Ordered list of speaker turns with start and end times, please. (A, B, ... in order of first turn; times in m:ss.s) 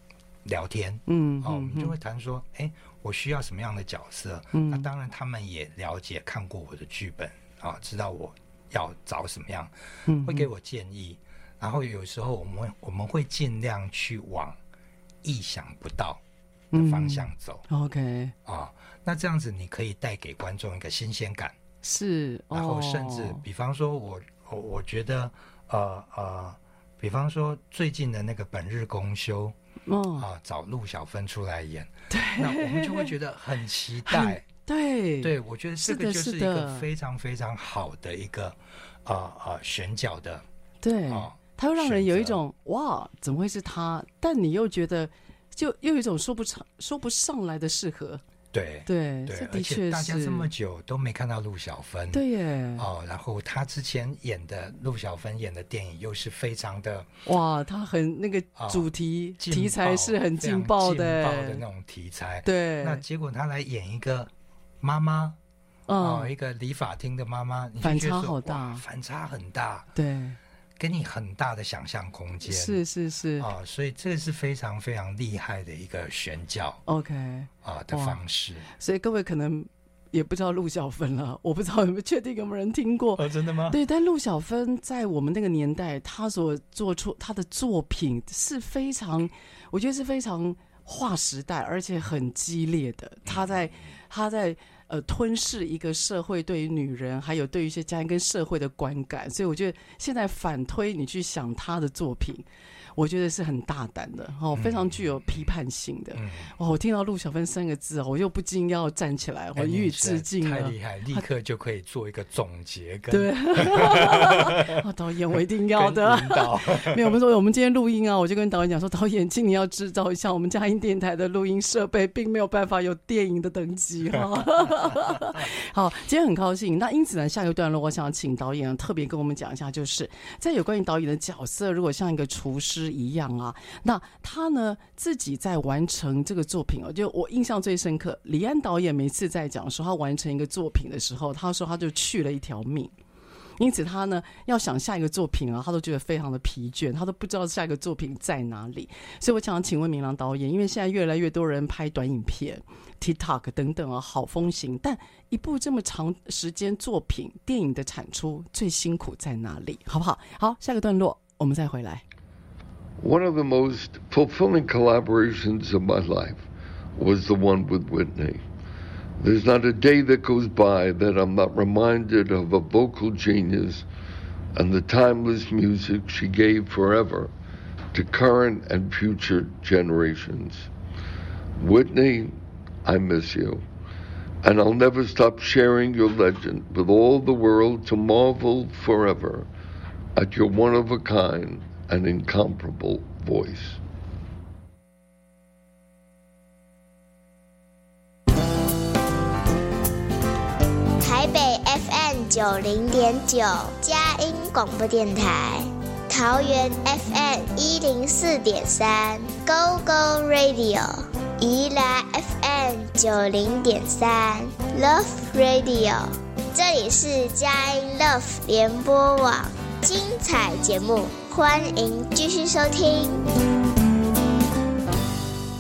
0:00.4-0:14.6 A
0:01.1-0:02.0 B
0:04.5-0:04.9 B
0:10.1-0:10.5 B
0:15.2-0:16.2 A
0:16.7-0:17.7 A
0:16.7-0:18.3 B
0:18.4-0:21.6 A
0:21.8-0:23.4 B
0:22.5-0:29.6 A
0:29.9-0:30.3 B
0:30.2-0:34.5 A
0:32.1-0:33.1 B
0:34.1-0:36.9 B
0:35.2-0:40.4 A
0:40.8-0:48.2 B
0:41.1-0:42.4 A
0:48.5-0:52.2 A
0:48.9-0:50.5 B
0:52.1-0:52.9 B
0:52.8-0:57.1 A
0:57.3-1:01.6 B
0:58.6-1:05.4 A
1:02.4-1:03.0 B
1:05.9-1:06.3 B
1:06.0-1:09.9 A
1:07.8-1:08.8 B
1:10.0-1:10.4 B
1:10.8-1:12.8 A
1:12.5-1:13.5 B
1:13.4-1:16.8 A
1:16.9-1:42.5 B
1:17.6-1:18.7 A
1:23.2-1:23.8 A
1:33.3-1:33.9 A
1:43.0-1:51.3 B
1:44.5-1:45.5 A
1:46.1-1:46.5 A
1:49.6-1:54.8 A
1:53.1-2:22.9 B
1:55.8-1:57.2 A
2:23.6-2:42.0 B
2:43.0-2:48.4 C
2:49.2-2:53.8 C
2:54.6-2:57.3 C
2:57.9-3:00.7 C
3:01.6-3:03.6 C
3:04.4-3:09.5 C
3:10.2-3:13.8 C
3:21.0-3:43.2 D